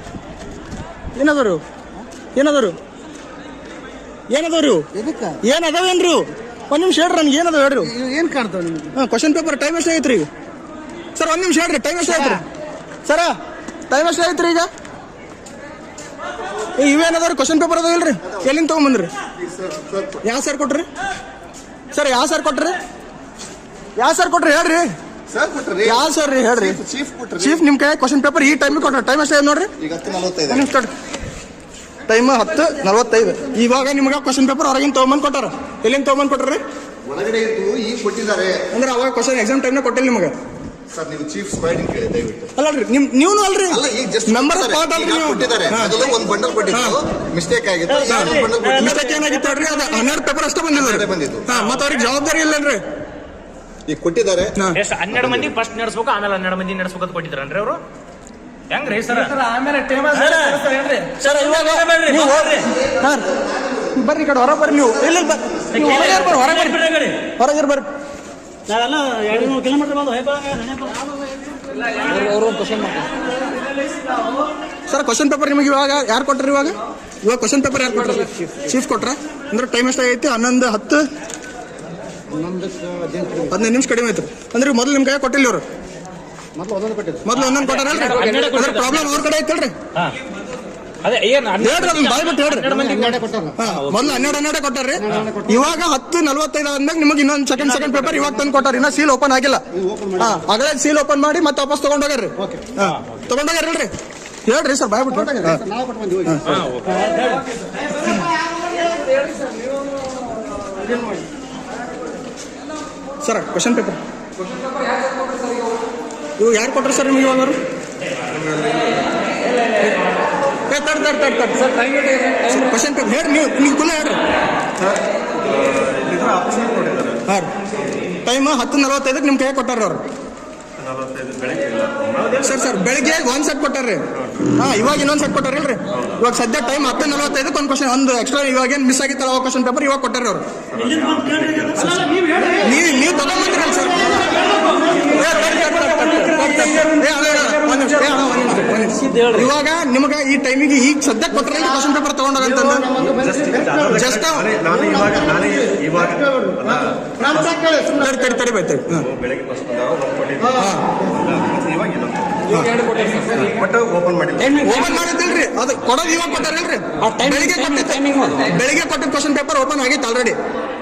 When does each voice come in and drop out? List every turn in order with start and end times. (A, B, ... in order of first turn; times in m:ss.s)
0:01.2-0:01.6 A
0:02.4-0:02.8 A
0:04.3-0:04.9 A
0:05.0-0:05.4 B
0:05.4-0:07.9 A
0:07.9-0:08.9 B
0:09.0-0:10.3 A
0:11.2-0:12.4 A
0:13.1-0:13.3 A
0:13.9-0:14.7 A
0:16.8-0:19.1 A
0:19.4-0:20.2 C
0:20.2-0:20.9 A
0:21.9-0:22.8 A
0:24.0-0:24.9 A
0:25.3-0:27.6 C
0:25.8-0:26.8 A
0:27.4-0:29.7 A
0:29.8-0:30.7 C
0:30.5-0:30.9 A
0:32.1-0:36.6 A
0:37.1-0:38.6 C
0:38.7-0:40.3 A
0:40.9-0:42.5 C
0:42.6-0:46.0 A
0:43.7-0:49.1 C
0:46.7-0:47.0 A
0:47.9-0:49.9 D
0:48.1-0:52.8 A
0:50.7-0:51.5 C
0:53.9-0:54.6 C
0:54.8-0:57.8 E
0:55.2-0:55.5 C
0:58.7-1:02.7 E
1:00.2-1:00.5 D
1:01.2-1:03.3 A
1:03.9-1:06.8 A
1:05.8-1:07.1 E
1:06.7-1:07.1 D
1:07.4-1:07.9 A
1:08.7-1:11.0 D
1:12.1-1:13.1 D
1:14.9-1:21.0 A
1:22.3-1:23.6 B
1:23.5-1:25.6 A
1:26.6-1:27.2 B
1:27.2-1:29.8 A
1:27.4-1:29.2 E
1:31.0-1:34.3 E
1:31.6-1:32.8 A
1:32.7-1:33.6 B
1:33.6-1:39.6 A
1:35.0-1:35.7 B
1:39.8-1:40.4 B
1:40.2-1:43.9 A
1:42.4-1:42.7 B
1:44.5-1:45.6 A
1:45.1-1:46.4 B
1:46.3-1:46.7 A
1:46.5-1:47.4 E
1:53.2-1:54.0 A
1:56.4-1:57.6 A
1:58.3-1:58.9 F
2:00.7-2:01.7 A
2:02.4-2:04.2 A
2:04.8-2:07.2 F
2:07.3-2:07.5 A
2:08.2-2:10.0 A
2:10.8-2:12.5 F
2:12.4-2:14.0 A
2:14.6-2:20.4 A
2:16.0-2:16.2 F
2:20.7-2:21.9 F
2:21.8-2:24.4 A
2:24.3-2:25.1 B
2:25.1-2:32.9 A
2:29.0-2:29.4 E
2:32.5-2:34.0 B
2:33.0-2:37.1 F
2:33.9-2:34.5 A
2:34.7-2:38.4 B
2:38.0-2:39.1 A
2:39.0-2:42.6 F
2:40.6-2:40.8 A
2:42.5-2:42.8 A
2:42.8-2:43.4 D
2:43.0-2:43.3 E
2:43.5-2:44.7 F
2:44.4-2:44.9 D
2:44.6-2:50.4 A
2:47.0-2:48.5 D